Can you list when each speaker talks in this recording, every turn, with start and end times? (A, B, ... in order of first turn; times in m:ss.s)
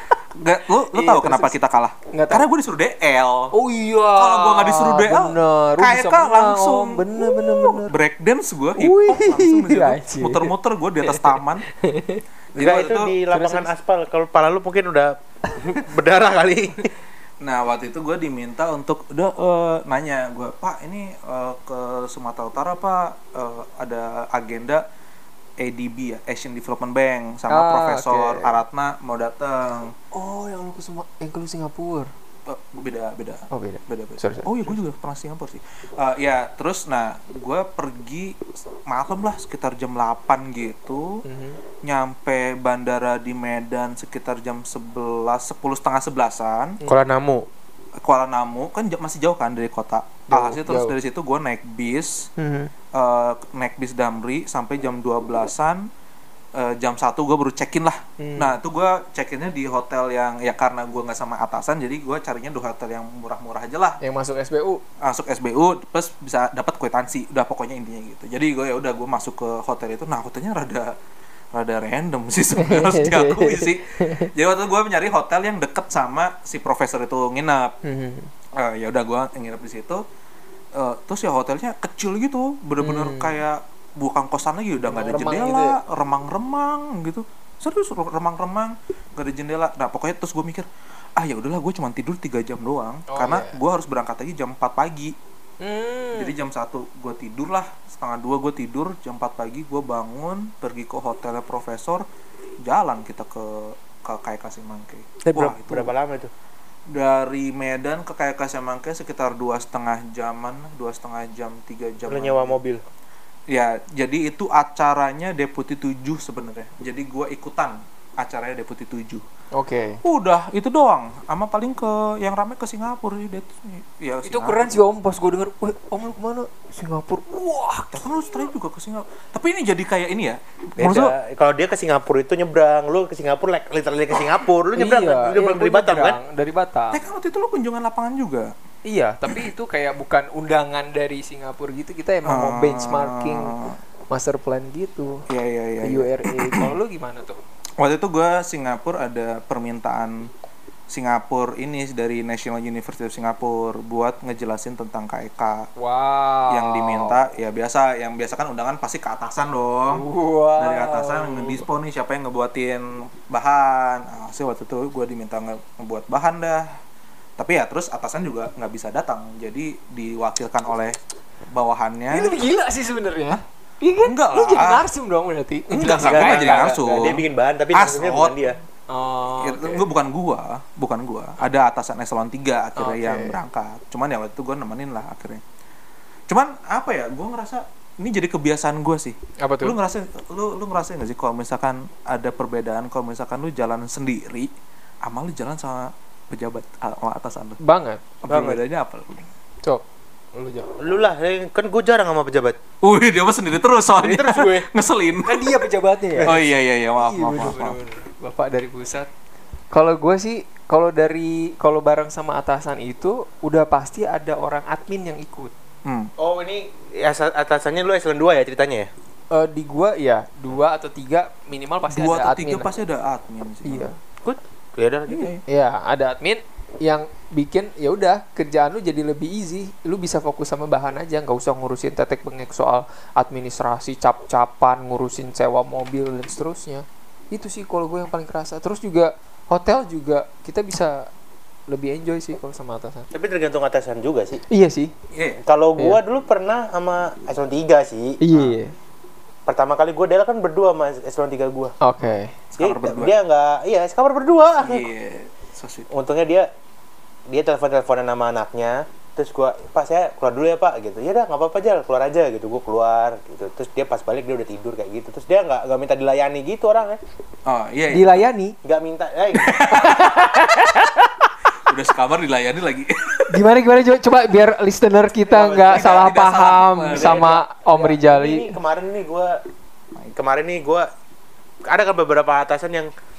0:00.3-0:03.5 A
0:00.9-0:01.5 B
0:02.1-0:02.4 B
0:03.5-0:07.9 B
0:04.1-0:11.6 A
0:08.8-0:10.5 B
0:11.0-0:13.7 B
0:12.6-0:13.1 A
0:12.6-0:16.9 C
0:17.4-0:24.8 A
0:25.6-0:29.9 A
0:27.5-0:28.6 B
0:30.1-0:32.1 B
0:32.4-0:41.2 A
0:33.5-0:34.8 B
0:41.2-0:41.6 B
0:41.8-0:46.8 A
0:46.8-0:47.4 C
0:48.0-0:52.3 A
0:50.3-0:50.9 B
0:52.4-0:52.7 B
0:52.9-0:55.9 A
0:56.5-1:04.0 A
0:58.2-0:58.5 B
1:04.0-1:04.8 B
1:05.0-1:11.0 A
1:11.5-1:17.7 A
1:12.6-1:14.3 B
1:17.8-1:18.3 B
1:18.5-1:20.0 A
1:20.7-1:35.1 A
1:22.8-1:23.3 B
1:24.8-1:25.8 B
1:33.1-1:33.6 B
1:35.6-1:36.3 B
1:36.1-1:42.0 A
1:42.6-1:45.9 A
1:45.2-1:46.3 C
1:46.9-1:52.6 A
1:52.1-1:52.8 C
1:53.5-1:59.2 A
1:59.5-2:00.0 B
2:00.0-2:04.7 A
2:04.2-2:08.5 B
2:07.9-2:11.1 A
2:10.8-2:16.2 C
2:14.7-2:17.0 B
2:16.9-2:18.5 A
2:18.8-2:23.5 B
2:22.2-2:23.8 A
2:24.1-2:25.2 B
2:25.3-2:26.7 A
2:25.8-2:27.4 B
2:27.8-2:30.3 A
2:30.9-2:35.7 A
2:35.8-2:37.2 B
2:36.5-2:40.0 A
2:39.9-2:41.6 B
2:40.6-2:46.8 A
2:47.4-2:51.0 A
2:51.5-2:52.4 A
2:52.1-2:57.2 B
2:54.0-2:54.9 A
2:55.7-2:58.5 A
2:56.0-2:58.6 C
2:58.9-2:59.9 B
2:59.4-3:05.4 A
3:02.8-3:03.4 B
3:06.3-3:14.5 A
3:09.4-3:09.8 B
3:15.0-3:17.6 A
3:17.6-3:18.0 B
3:18.2-3:19.3 A
3:18.3-3:18.6 C
3:20.3-3:20.7 B
3:20.8-3:22.6 C
3:22.8-3:25.6 A
3:24.0-3:24.7 C
3:25.2-3:26.3 B
3:26.2-3:27.8 A
3:27.0-3:29.1 B
3:29.7-3:35.5 B
3:35.8-3:36.1 A
3:36.2-3:38.9 C
3:39.3-3:42.7 B
3:41.9-3:43.9 A
3:43.6-3:44.0 B
3:44.2-3:45.4 C
3:45.1-3:45.4 A
3:45.5-4:01.1 B
4:01.7-4:03.1 B
4:03.1-4:04.4 C
4:04.5-4:04.9 B
4:05.1-4:05.4 A
4:05.4-4:08.2 C
4:08.2-4:08.7 B
4:09.5-4:11.7 C
4:11.8-4:12.3 B
4:12.0-4:13.1 A
4:12.6-4:14.9 C
4:14.6-4:15.9 A
4:15.9-4:16.5 C
4:17.3-4:27.0 C
4:27.5-4:28.2 A
4:27.9-4:28.5 B
4:28.6-4:29.7 C
4:29.4-4:30.3 A
4:29.5-4:31.3 B
4:31.6-4:33.4 A
4:33.3-4:38.5 B
4:35.3-4:36.0 C
4:35.7-4:37.3 A
4:36.9-4:39.4 C
4:40.1-4:40.9 C
4:41.7-4:42.9 C